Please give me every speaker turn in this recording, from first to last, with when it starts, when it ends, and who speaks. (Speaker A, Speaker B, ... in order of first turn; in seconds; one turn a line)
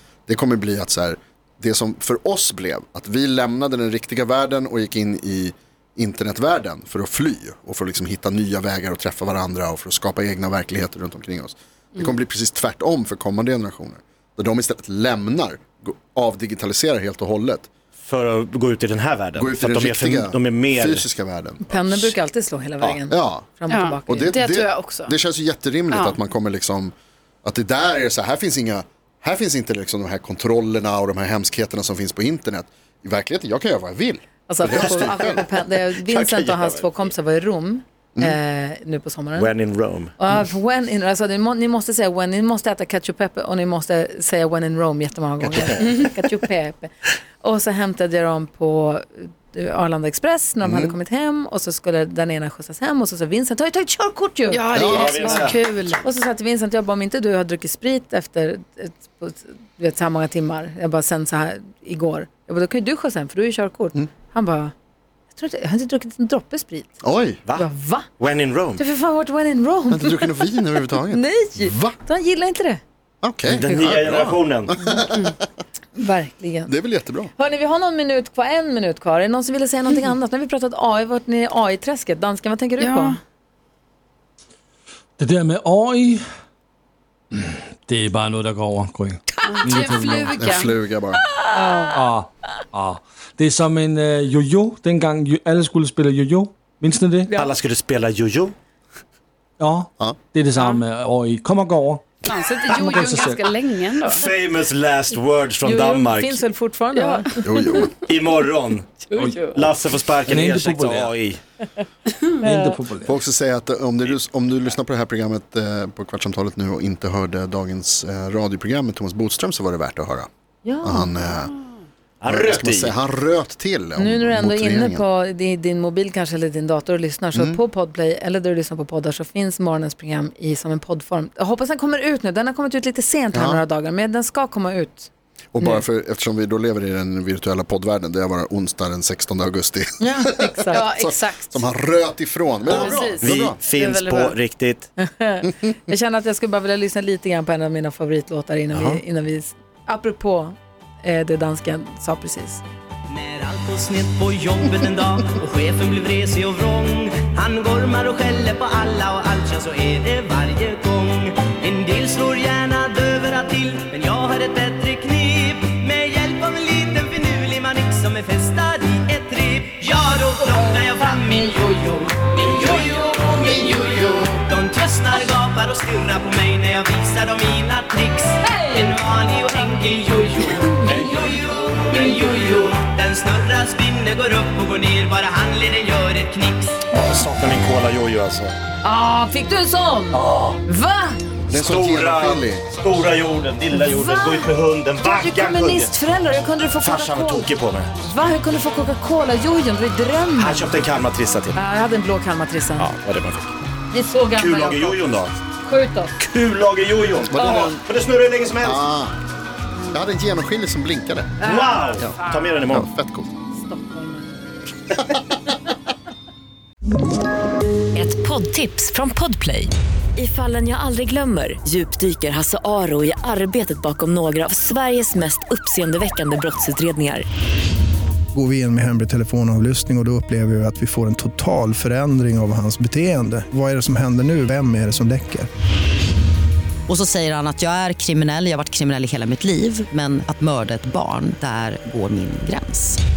Speaker A: 0.3-17.7
Speaker B: 18.0-21.1
Speaker A: 19.4-22.2
Speaker C: 21.6-24.3
Speaker A: 22.8-23.5
Speaker D: 23.7-25.1
Speaker A: 24.1-26.9
Speaker D: 25.9-26.2
Speaker A: 27.4-35.5
Speaker C: 34.5-39.5
Speaker B: 35.9-37.0
Speaker B: 39.4-40.1
Speaker C: 40.2-55.3
Speaker A: 50.6-50.9
Speaker D: 54.5-56.1
Speaker B: 54.7-55.6
Speaker A: 54.7-55.2
Speaker C: 56.0-64.7
Speaker C: 65.3-66.9
Speaker A: 67.0-67.4
Speaker C: 67.6-68.1
Speaker B: 68.2-68.8
Speaker C: 68.8-70.5
Speaker A: 69.9-72.0
Speaker C: 71.1-72.8
Speaker A: 73.2-75.4
Speaker B: 73.5-74.7
Speaker C: 73.6-74.0
Speaker C: 74.7-75.0
Speaker C: 76.0-76.7
Speaker A: 76.7-77.3
Speaker C: 77.3-83.2
Speaker D: 82.8-83.2
Speaker E: 85.2-86.2
Speaker E: 87.3-90.4
Speaker D: 89.5-90.7
Speaker A: 90.4-91.2
Speaker C: 91.6-91.9
Speaker D: 91.6-91.9
Speaker E: 91.9-97.3
Speaker B: 97.3-98.5
Speaker E: 99.6-102.0
Speaker D: 100.6-100.8
Speaker D: 102.2-104.3
Speaker E: 102.8-103.5
Speaker B: 104.1-106.4
Speaker C: 105.6-107.8
Speaker D: 107.0-107.9
Speaker A: 107.5-107.9
Speaker B: 108.0-111.4
Speaker D: 109.1-109.7
Speaker E: 109.1-109.4
Speaker E: 110.3-111.1
Speaker D: 112.1-112.4
Speaker C: 112.4-112.8
Speaker E: 112.4-113.1
Speaker A: 113.0-120.3
Speaker C: 120.6-121.1
Speaker A: 120.8-121.5
Speaker B: 122.2-123.0
Speaker A: 122.3-125.0
Speaker C: 124.0-135.8
Speaker A: 127.3-127.6
Speaker A: 133.3-133.6
Speaker A: 135.5-143.6
Speaker C: 140.0-140.9
Speaker D: 140.7-141.7
Speaker B: 142.7-144.9
Speaker D: 142.7-144.4
Speaker C: 145.0-152.6
Speaker B: 148.7-149.0
Speaker F: 153.1-186.8
Speaker C: 178.4-179.0
Speaker C: 180.7-181.2
Speaker B: 186.9-188.6
Speaker C: 188.8-191.2
Speaker B: 190.1-190.6
Speaker A: 191.5-192.7
Speaker B: 191.5-195.9
Speaker C: 193.7-200.8
Speaker B: 196.8-197.9
Speaker B: 200.4-201.6
Speaker C: 201.6-202.9
Speaker B: 202.8-203.5
Speaker C: 203.9-205.0
Speaker B: 204.4-205.3
Speaker C: 205.6-206.1
Speaker B: 206.2-208.8
Speaker A: 207.3-207.8
Speaker A: 208.6-209.2
Speaker A: 209.9-211.5
Speaker B: 211.4-212.9
Speaker C: 211.4-212.1
Speaker D: 211.6-212.0
Speaker A: 212.7-213.3
Speaker C: 213.5-214.4
Speaker G: 218.0-227.2
Speaker H: 228.3-235.5
Speaker I: 236.9-243.0